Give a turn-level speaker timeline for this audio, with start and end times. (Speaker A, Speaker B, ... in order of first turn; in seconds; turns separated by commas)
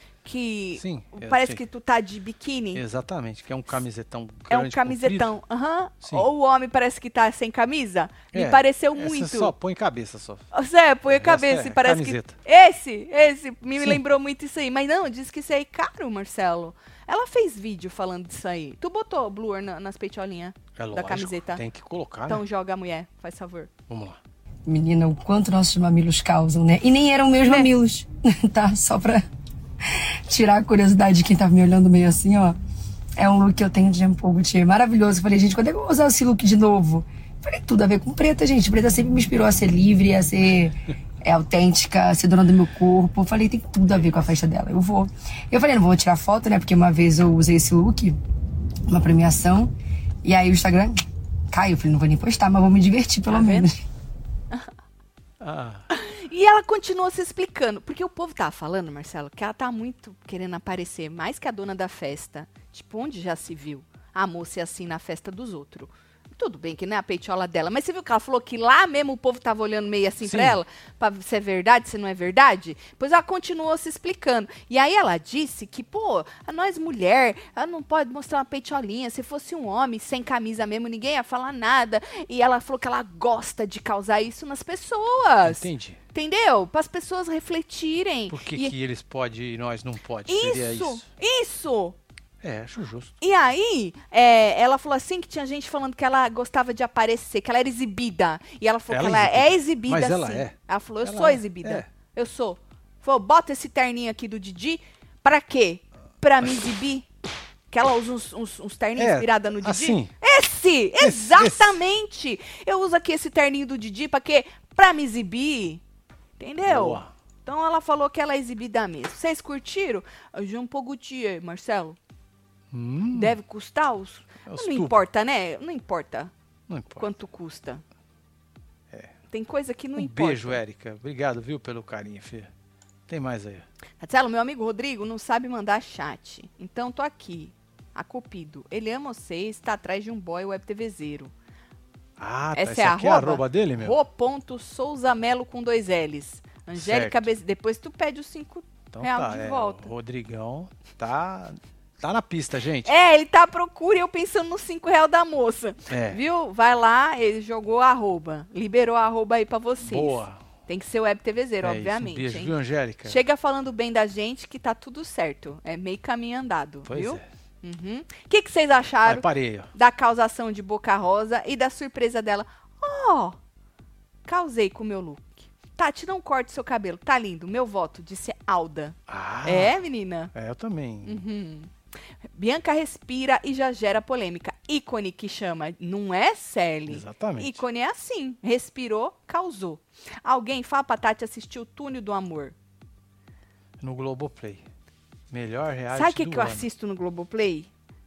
Speaker A: 0.2-2.8, Speaker B: 0.8-1.6, Speaker B: 2.7-5.3, Speaker A: 4.5-9.5, Speaker B: 8.3-10.4, Speaker A: 10.5-21.6, Speaker B: 11.1-12.3, Speaker B: 20.8-22.4, Speaker A: 22.3-23.7, Speaker B: 23.9-24.2, Speaker C: 24.6-29.2, Speaker A: 27.4-27.7, Speaker C: 30.3-32.6, Speaker C: 33.2-48.2, Speaker C: 48.9-49.7, Speaker C: 50.2-51.0, Speaker C: 51.5-53.8, Speaker A: 53.3-53.7, Speaker B: 55.4-55.9, Speaker A: 55.9-88.7, Speaker B: 70.2-70.6, Speaker B: 85.5-86.0, Speaker B: 88.3-91.0, Speaker A: 90.3-92.0, Speaker B: 92.4-93.1, Speaker A: 93.2-107.1, Speaker B: 98.9-101.9, Speaker A: 107.7-115.8, Speaker B: 109.0-110.1, Speaker B: 111.0-111.8, Speaker A: 116.4-122.0, Speaker B: 116.7-117.1, Speaker B: 122.7-123.3, Speaker A: 123.1-126.3, Speaker B: 124.5-125.0, Speaker B: 126.7-127.1, Speaker A: 127.0-127.8, Speaker A: 129.3-130.6, Speaker B: 129.9-132.5, Speaker B: 133.1-133.7, Speaker A: 134.0-141.3, Speaker B: 142.2-143.9, Speaker A: 142.6-149.9, Speaker B: 146.7-147.3, Speaker B: 148.9-152.9, Speaker A: 152.8-162.5, Speaker B: 155.9-156.2, Speaker B: 159.8-160.4, Speaker B: 161.6-163.2, Speaker A: 163.0-173.4, Speaker B: 166.9-167.2, Speaker B: 169.0-169.7, Speaker A: 174.2-180.3, Speaker B: 179.1-179.7, Speaker B: 180.3-181.2, Speaker A: 181.0-181.7, Speaker A: 182.3-192.6, Speaker B: 186.9-187.6, Speaker B: 193.8-194.7, Speaker B: 195.3-196.7, Speaker A: 195.9-197.7